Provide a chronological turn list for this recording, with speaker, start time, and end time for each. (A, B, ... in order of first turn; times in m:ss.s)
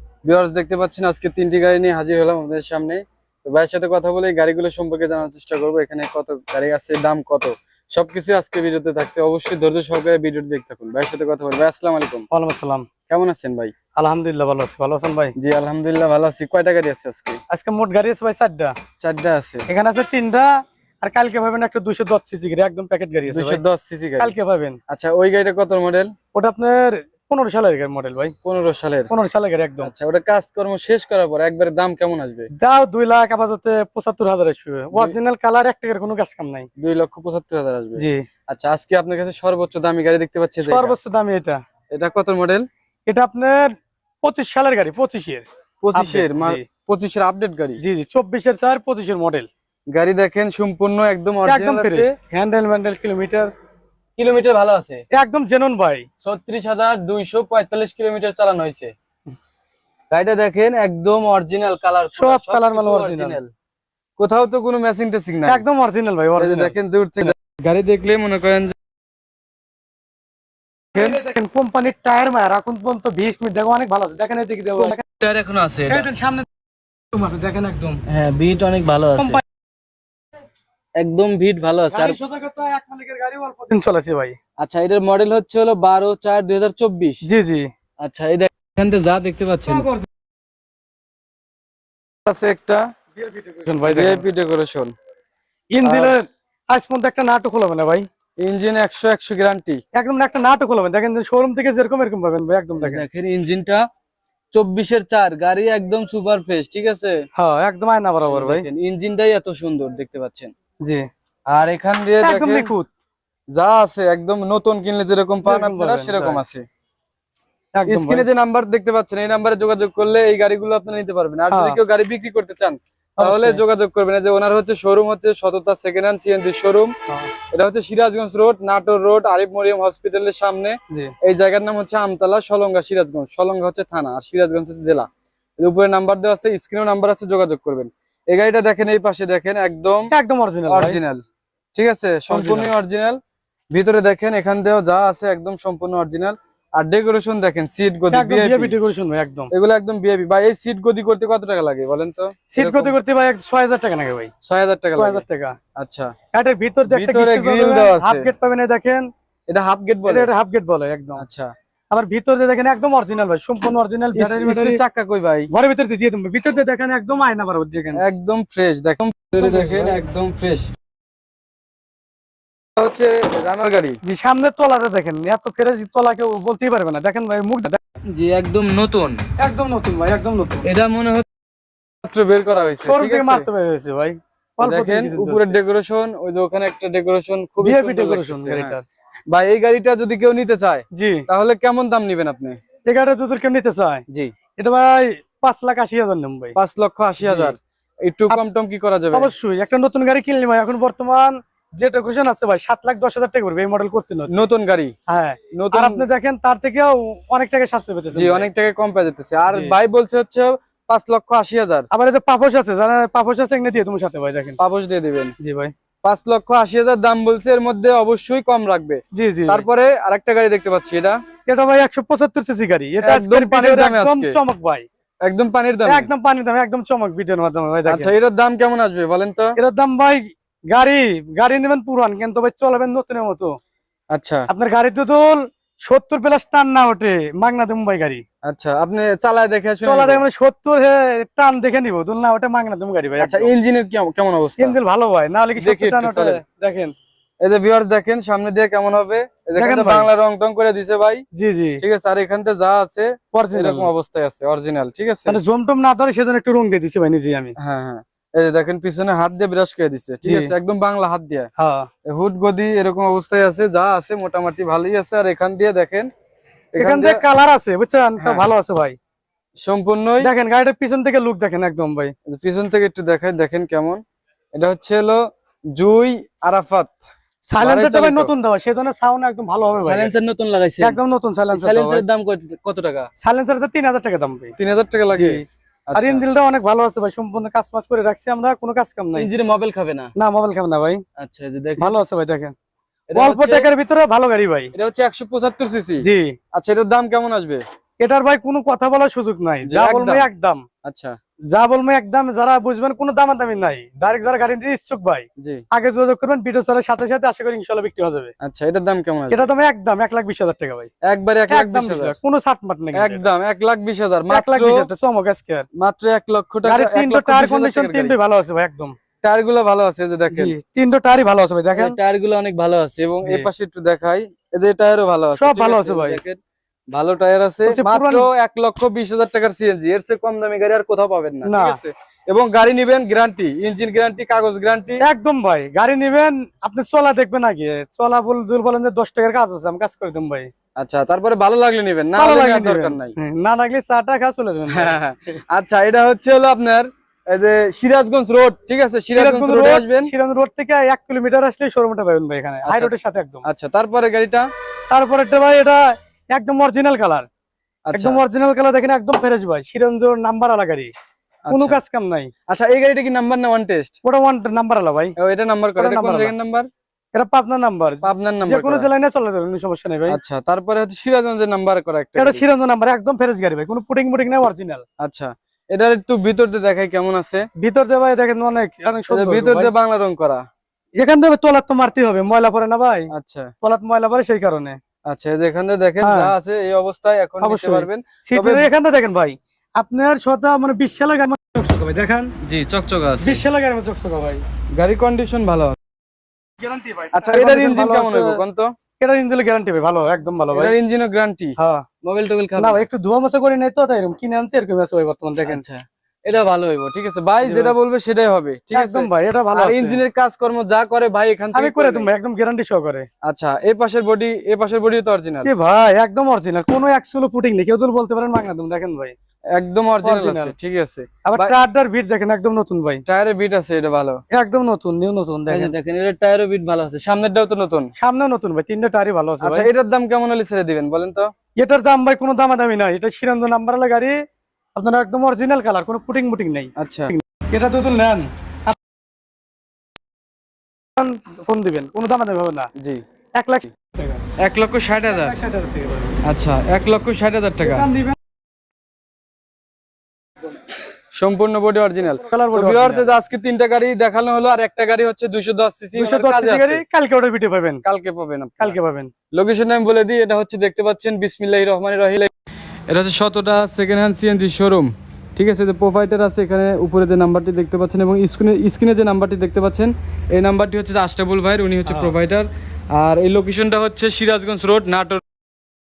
0:00.2-0:12.3 A
0:12.3-0:12.8 B
0:13.1-0:13.7 A
0:14.0-0:15.3 B
0:15.4-0:17.4 A
0:17.5-0:18.7 B
0:19.0-0:19.7 A
0:19.7-0:20.5 B
0:21.0-0:23.6 B
0:23.3-0:24.4 A
0:24.2-0:24.8 B
0:24.9-0:26.1 A
0:26.3-0:28.3 B
0:28.4-0:29.1 A
0:29.1-0:29.9 B
0:29.8-0:32.5 A
0:32.6-0:36.7 B
0:36.8-0:40.9 A
0:38.0-0:38.2 B
0:40.6-0:41.6 B
0:41.9-0:42.6 A
0:43.1-0:43.7 B
0:44.2-0:46.6 B
0:45.8-0:47.8 A
0:47.8-0:49.5 B
0:49.9-0:52.1 A
0:51.4-0:53.5 B
0:54.2-0:55.0 A
0:55.1-0:56.0 B
0:56.2-0:58.9 A
1:00.1-1:03.5 A
1:02.1-1:03.4 B
1:04.2-1:05.6 A
1:05.4-1:07.3 B
1:06.4-1:08.7 A
1:10.9-1:15.0 B
1:14.8-1:16.1 A
1:15.9-1:16.5 B
1:17.1-1:18.0 B
1:18.0-1:19.4 A
1:19.2-1:19.4 B
1:21.0-1:22.2 A
1:21.9-1:24.4 B
1:24.6-1:27.2 A
1:27.2-1:27.7 B
1:28.0-1:29.9 A
1:29.6-1:30.0 B
1:32.2-1:32.8 A
1:33.2-1:34.2 B
1:33.9-1:34.9 A
1:35.7-1:38.0 B
1:35.8-1:36.1 A
1:38.4-1:39.8 A
1:39.9-1:43.0 B
1:42.8-1:43.8 A
1:44.5-1:47.1 A
1:47.3-1:48.6 B
1:48.3-1:50.5 A
1:51.5-1:52.7 A
1:52.2-1:52.9 B
1:53.5-1:56.6 A
1:55.4-1:56.4 B
1:57.8-1:58.2 B
1:57.9-2:06.9 A
2:01.5-2:01.8 B
2:03.2-2:03.6 B
2:07.5-2:15.1 A
2:15.6-2:20.1 A
2:20.1-2:21.0 B
2:20.7-2:21.2 A
2:21.7-2:23.2 A
2:22.3-2:22.7 B
2:23.7-2:28.7 A
2:28.1-2:29.5 B
2:29.5-2:32.9 A
2:32.5-2:34.3 B
2:34.4-2:35.2 A
2:34.9-2:35.6 B
2:35.8-2:36.1 A
2:36.3-2:39.1 B
2:36.9-2:38.3 A
2:39.5-2:40.3 A
2:40.0-2:41.2 B
2:41.2-2:41.5 A
2:41.9-2:44.8 B
2:44.1-2:45.5 A
2:45.5-2:48.0 B
2:48.0-2:50.7 A
2:49.4-2:50.0 B
2:52.8-2:54.0 A
2:54.0-2:57.8 B
2:58.1-2:59.2 A
2:59.4-3:00.7 B
3:00.6-3:01.2 A
3:02.0-3:03.5 A
3:02.8-3:05.5 B
3:04.6-3:08.8 A
3:07.6-3:08.8 B
3:09.3-3:12.6 A
3:10.9-3:11.2 B
3:12.9-3:14.0 B
3:14.6-3:16.5 B
3:16.6-3:19.3 A
3:17.2-3:17.5 B
3:19.1-3:24.4 B
3:24.3-3:24.9 A
3:25.1-3:28.4 B
3:25.5-3:26.0 A
3:28.1-3:31.9 A
3:29.5-3:29.8 B
3:31.9-3:34.6 B
3:34.6-3:35.3 A
3:35.4-3:35.7 B
3:36.0-3:41.2 A
3:39.1-3:39.6 B
3:41.5-3:44.8 B
3:43.0-3:44.4 A
3:45.2-3:46.1 A
3:45.8-3:48.1 B
3:47.8-3:49.6 A
3:49.6-3:53.6 B
3:54.1-3:54.5 A
3:54.5-3:58.2 B
3:58.4-4:00.2 A
3:59.8-4:03.5 B
4:03.2-4:04.8 A
4:04.6-4:06.9 B
4:05.6-4:06.4 A
4:07.4-4:11.2 A
4:09.6-4:10.1 B
4:11.3-4:11.8 B
4:11.8-4:15.4 A
4:13.3-4:13.9 B
4:15.3-4:17.5 B
4:17.6-4:21.5 A
4:20.2-4:20.5 B
4:21.6-4:21.9 B
4:22.0-4:26.1 A
4:26.7-4:27.2 A
4:26.8-4:29.0 B
4:28.2-4:28.4 A
4:29.6-4:30.3 A
4:30.2-4:32.1 B
4:32.3-4:34.0 A
4:34.5-4:35.2 A
4:35.7-4:37.0 A
4:37.5-4:40.1 B
4:37.6-4:38.3 A
4:39.8-4:41.0 A
4:40.8-4:42.0 B
4:41.5-4:43.1 A
4:43.2-4:44.5 B
4:44.6-4:46.2 A
4:45.1-4:45.4 B
4:45.9-4:49.3 B
4:49.1-4:50.1 A
4:50.2-4:51.0 B
4:51.2-4:52.0 A
4:51.8-4:52.5 B
4:53.1-4:53.7 A
4:53.1-4:54.7 B
4:54.7-4:57.6 A
4:56.0-4:56.4 B
4:58.0-5:00.6 B
4:59.6-5:00.3 A
5:00.8-5:01.2 A
5:01.5-5:08.3 B
5:08.4-5:09.5 A
5:09.3-5:10.9 B
5:11.0-5:12.2 A
5:11.5-5:13.2 B
5:12.9-5:14.9 A
5:14.3-5:15.6 B
5:15.8-5:18.2 A
5:16.6-5:18.9 B
5:19.2-5:20.5 A
5:20.3-5:22.0 B
5:21.8-5:26.4 A
5:23.2-5:23.5 B
5:25.4-5:26.2 B
5:26.9-5:35.0 A
5:27.6-5:28.3 B
5:31.4-5:31.8 B
5:35.0-5:40.5 B
5:40.8-5:43.2 A
5:42.2-5:45.0 B
5:44.7-5:50.1 A
5:49.1-5:53.4 B
5:52.6-5:52.9 A
5:53.4-5:54.4 A
5:54.9-5:57.3 B
5:57.9-5:58.2 A
5:57.9-6:00.9 B
6:01.5-6:01.8 A
6:01.5-6:02.3 B
6:02.5-6:03.9 A
6:04.0-6:05.1 B
6:05.2-6:06.7 A
6:05.8-6:06.3 B
6:07.1-6:10.2 B
6:08.0-6:08.8 A
6:10.1-6:12.4 A
6:12.2-6:14.8 B
6:15.0-6:17.5 A
6:17.6-6:19.7 B
6:19.1-6:20.4 A
6:21.0-6:23.1 B
6:23.1-6:23.5 A
6:23.6-6:24.8 B
6:25.1-6:28.7 A
6:26.0-6:26.3 B
6:27.4-6:32.3 B
6:32.4-6:33.4 A
6:33.2-6:34.4 B
6:34.7-6:35.8 A
6:36.6-6:38.4 B
6:37.1-6:38.7 A
6:39.0-6:40.7 B
6:40.5-6:42.8 A
6:41.6-6:41.8 B
6:42.6-6:45.6 B
6:45.4-6:52.1 A
6:47.4-6:47.7 B
6:48.7-6:50.0 B
6:51.5-6:53.1 B
6:53.2-6:55.5 A
6:55.4-6:59.1 B
6:59.5-7:01.5 A
7:00.0-7:00.5 B
7:01.2-7:03.0 B
7:03.0-7:04.2 A
7:04.3-7:05.7 B
7:05.5-7:07.9 A
7:08.0-7:09.7 B
7:09.4-7:11.3 A
7:11.6-7:14.1 B
7:14.8-7:18.8 B
7:16.8-7:17.1 A
7:21.0-7:22.7 B
7:22.8-7:23.0 A
7:23.4-7:24.2 B
7:24.4-7:25.3 A
7:25.1-7:26.2 B
7:26.2-7:27.9 A
7:27.6-7:28.2 B
7:31.1-7:36.8 A
7:32.2-7:33.1 B
7:35.9-7:37.8 B
7:37.8-7:38.8 A
7:38.6-7:39.1 B
7:39.3-7:42.3 A
7:42.9-7:55.2 A
7:51.8-7:52.2 B